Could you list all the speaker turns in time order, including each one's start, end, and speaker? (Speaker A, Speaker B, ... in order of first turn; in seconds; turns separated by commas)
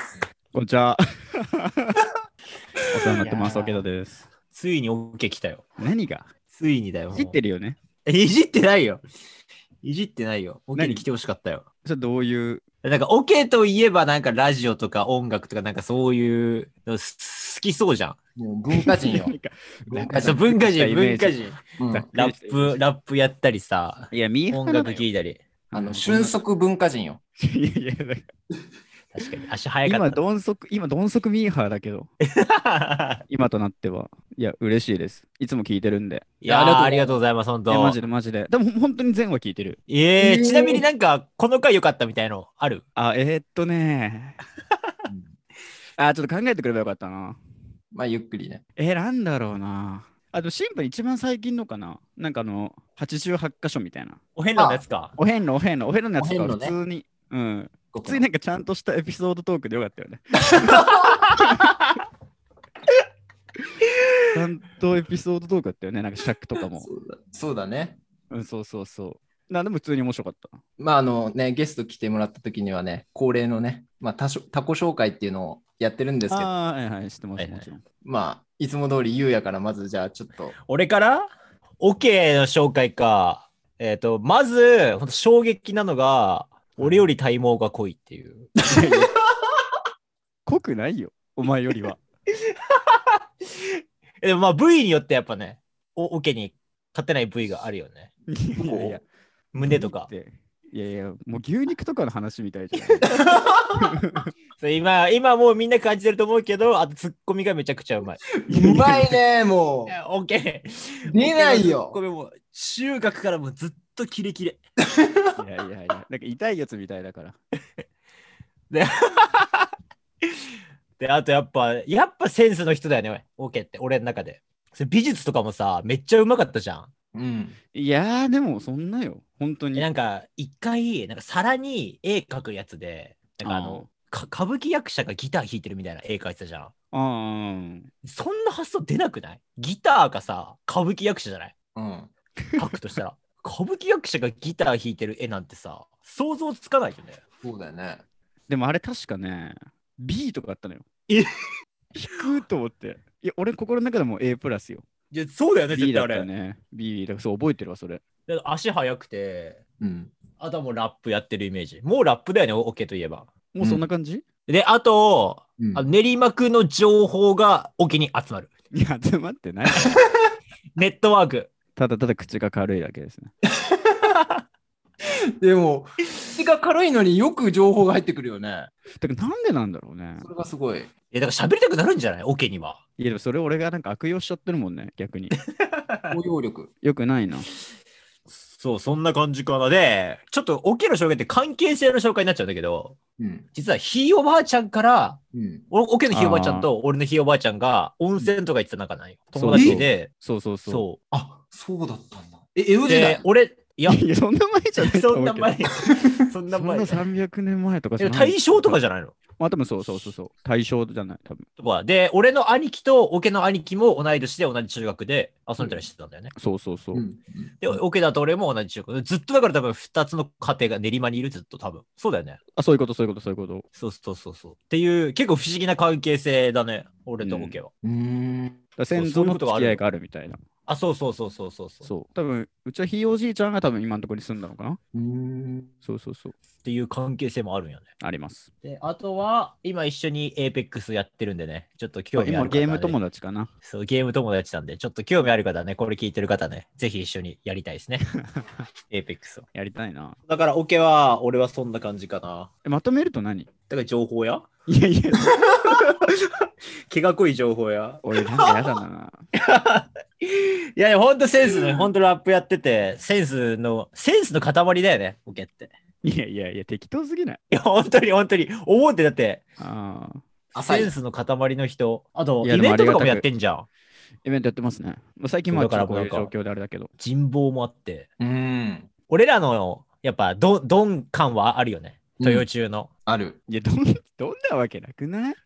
Speaker A: 0.5-2.0, Speaker A: 2.9-4.3, Speaker B: 3.2-3.9, Speaker B: 4.5-5.6, Speaker A: 5.8-6.3, Speaker B: 6.5-7.4, Speaker A: 7.1-7.8, Speaker B: 8.0-9.0, Speaker B: 9.8-11.7, Speaker A: 10.7-11.1, Speaker A: 11.8-12.6, Speaker B: 12.8-18.2, Speaker C: 18.4-19.3, Speaker A: 18.7-22.8, Speaker C: 19.9-20.4, Speaker B: 20.1-21.6, Speaker C: 21.8-22.1, Speaker B: 22.1-25.4, Speaker A: 24.1-25.1, Speaker A: 25.7-26.3, Speaker C: 25.7-27.2, Speaker A: 27.4-28.3, Speaker B: 29.1-30.2, Speaker A: 29.8-32.1, Speaker B: 32.4-33.2, Speaker A: 33.3-36.3, Speaker B: 36.4-38.0, Speaker C: 36.5-37.2, Speaker A: 37.7-39.8, Speaker B: 39.9-42.8, Speaker C: 40.2-40.9, Speaker A: 43.0-44.4, Speaker C: 45.1-45.3, Speaker A: 46.0-47.4, Speaker C: 47.9-48.6, Speaker A: 48.8-54.2, Speaker B: 54.4-55.1, Speaker C: 54.5-54.8, Speaker A: 55.1-61.7, Speaker C: 56.2-56.8, Speaker C: 57.9-58.2, Speaker B: 60.7-61.0, Speaker A: 64.3-66.9, Speaker C: 66.8-68.0, Speaker A: 68.3-70.6, Speaker C: 70.8-76.5, Speaker A: 76.3-77.8, Speaker B: 77.4-77.7, Speaker C: 78.0-80.5, Speaker B: 80.6-88.5, Speaker A: 86.8-87.1, Speaker A: 88.7-89.1, Speaker A: 90.5-92.0, Speaker B: 94.2-98.1, Speaker A: 98.3-99.0, Speaker C: 98.6-99.0, Speaker B: 99.5-100.1, Speaker A: 99.6-103.1, Speaker A: 103.8-104.3, Speaker B: 104.6-108.2, Speaker C: 108.4-109.9, Speaker A: 108.5-109.2, Speaker B: 109.9-114.6, Speaker C: 111.0-112.0, Speaker A: 115.4-117.3, Speaker B: 118.7-119.7, Speaker B: 121.0-126.9, Speaker C: 127.1-127.6, Speaker A: 127.7-129.9, Speaker B: 129.7-136.7, Speaker A: 133.4-133.9, Speaker A: 136.9-137.9, Speaker B: 138.0-141.5, Speaker C: 141.7-142.1, Speaker B: 142.6-147.2, Speaker C: 147.4-148.0, Speaker A: 148.5-150.9, Speaker A: 151.9-154.8, Speaker B: 155.1-156.3, Speaker A: 155.7-158.0, Speaker B: 158.3-159.6, Speaker C: 159.8-160.1, Speaker B: 160.4-163.3, Speaker A: 163.5-164.2, Speaker B: 164.5-168.5, Speaker C: 165.6-165.8, Speaker A: 168.7-170.0, Speaker B: 170.8-171.5, Speaker A: 171.8-173.3, Speaker C: 175.4-178.7, Speaker A: 179.0-180.3, Speaker C: 180.2-180.9, Speaker B: 181.1-182.8, Speaker A: 183.0-185.3, Speaker B: 185.6-186.2, Speaker C: 186.1-186.7, Speaker A: 186.8-187.5, Speaker B: 188.4-193.0, Speaker C: 193.2-193.4, Speaker B: 193.5-200.1, Speaker C: 195.3-195.6, Speaker A: 196.1-196.7, Speaker A: 199.3-200.8, Speaker C: 199.5-199.8, Speaker B: 200.7-201.0, Speaker C: 201.1-203.2, Speaker B: 202.8-204.0, Speaker A: 203.9-205.5, Speaker B: 204.8-207.1, Speaker A: 206.5-208.8, Speaker B: 208.0-209.2, Speaker A: 209.4-211.4, Speaker B: 211.6-216.3, Speaker A: 216.3-217.0, Speaker C: 216.9-217.8, Speaker B: 217.6-222.4, Speaker A: 222.6-223.7, Speaker B: 223.7-227.7, Speaker A: 227.2-227.6, Speaker C: 227.8-228.6, Speaker A: 228.8-230.4, Speaker B: 228.9-229.8, Speaker B: 230.7-231.9, Speaker A: 231.8-234.8, Speaker C: 234.9-235.7, Speaker A: 235.8-236.3, Speaker B: 236.6-237.9, Speaker A: 238.0-238.5, Speaker B: 238.6-243.0, Speaker A: 242.2-243.5, Speaker B: 243.6-248.1, Speaker A: 248.2-248.5, Speaker B: 248.9-249.5, Speaker A: 249.5-250.2, Speaker B: 250.3-252.5, Speaker A: 252.6-253.5, Speaker B: 253.7-254.5, Speaker A: 254.7-255.5, Speaker B: 255.2-256.0, Speaker B: 256.9-258.8, Speaker A: 258.0-259.2, Speaker B: 259.4-265.7, Speaker A: 266.0-267.4, Speaker B: 267.5-269.4, Speaker A: 269.6-270.2, Speaker B: 270.5-273.7, Speaker C: 270.5-270.9, Speaker A: 272.4-273.2, Speaker A: 274.2-276.9, Speaker B: 275.5-276.3, Speaker B: 277.0-278.1, Speaker C: 278.2-278.9, Speaker B: 279.1-282.9, Speaker C: 282.2-282.5, Speaker C: 283.1-283.4, Speaker A: 283.5-285.4